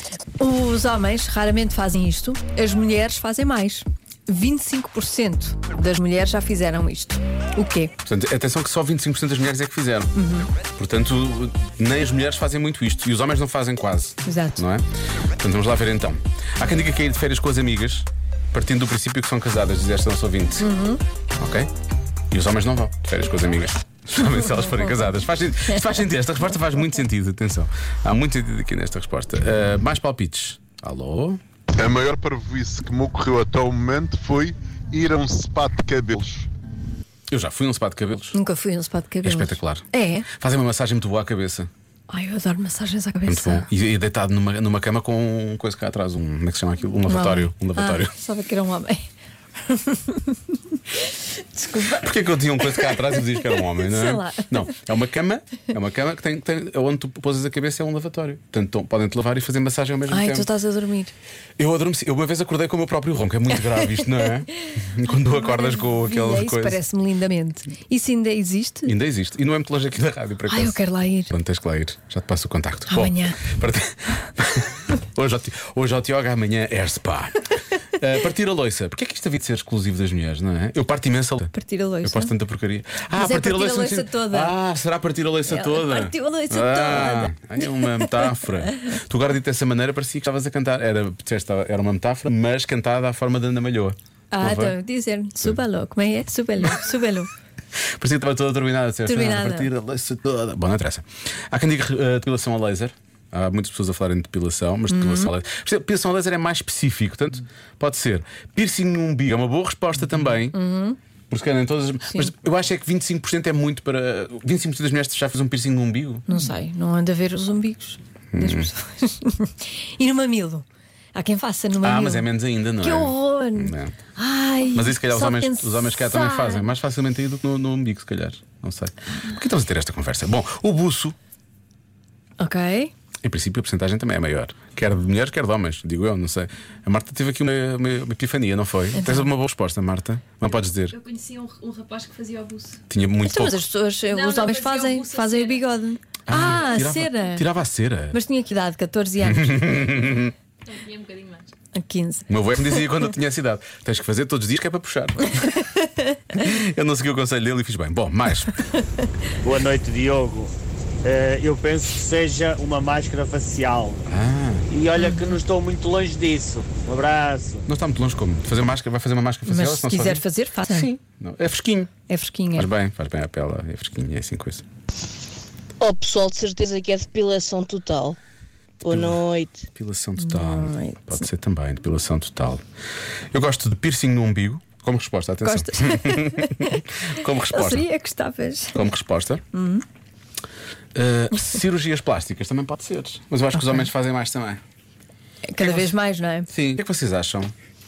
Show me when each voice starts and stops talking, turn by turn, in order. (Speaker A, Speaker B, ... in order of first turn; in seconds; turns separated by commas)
Speaker A: 0.4-7.9, Speaker B: 8.0-14.8, Speaker A: 10.1-10.5, Speaker A: 14.2-14.6, Speaker B: 15.4-20.7, Speaker A: 20.6-21.0, Speaker B: 21.4-21.7, Speaker B: 22.3-31.4, Speaker A: 24.2-25.1, Speaker A: 25.7-26.0, Speaker C: 31.8-36.5, Speaker B: 37.3-38.4, Speaker A: 38.3-40.3, Speaker B: 39.2-41.7, Speaker A: 42.1-43.7, Speaker B: 43.3-48.1, Speaker A: 47.0-49.0, Speaker A: 49.6-54.8, Speaker B: 51.8-60.5, Speaker A: 60.1-61.1, Speaker B: 61.6-66.8, Speaker A: 63.9-68.9, Speaker B: 68.8-77.4, Speaker A: 70.5-71.3, Speaker A: 72.9-73.5, Speaker B: 78.0-94.8, Speaker A: 81.5-82.3, Speaker A: 83.1-84.5, Speaker A: 85.5-88.9, Speaker A: 94.3-97.3, Speaker B: 98.0-110.5, Speaker A: 99.0-99.7, Speaker A: 104.9-105.3, Speaker A: 110.5-111.0, Speaker B: 111.3-116.3, Speaker A: 116.3-126.7, Speaker B: 118.3-118.7, Speaker B: 121.8-123.9, Speaker B: 124.7-131.1, Speaker A: 132.4-132.9, Speaker B: 133.2-141.0, Speaker A: 138.9-139.3, Speaker D: 140.9-142.8, Speaker B: 142.9-143.6, Speaker A: 143.2-147.4, Speaker D: 144.1-145.5, Speaker B: 146.3-148.2, Speaker A: 148.1-150.0, Speaker B: 149.2-150.3, Speaker D: 150.7-151.5, Speaker A: 151.7-152.9, Speaker B: 152.3-155.5, Speaker A: 155.5-156.2, Speaker B: 156.3-158.6, Speaker E: 159.4-164.0, Speaker B: 164.1-164.7, Speaker E: 164.7-167.7, Speaker A: 164.9-165.4, Speaker B: 167.7-171.9, Speaker A: 169.4-170.9, Speaker A: 172.1-172.7, Speaker B: 172.5-174.6, Speaker F: 175.8-178.2, Speaker B: 178.8-179.2, Speaker F: 178.8-179.7, Speaker B: 179.7-182.6, Speaker A: 180.2-181.2, Speaker B: 183.3-187.9, Speaker A: 185.4-188.9, Speaker B: 188.7-189.4, Speaker A: 189.5-189.8, Speaker B: 190.9-194.6, Speaker A: 193.5-193.9, Speaker A: 195.5-196.5, Speaker B: 195.6-195.9, Speaker B: 196.5-197.5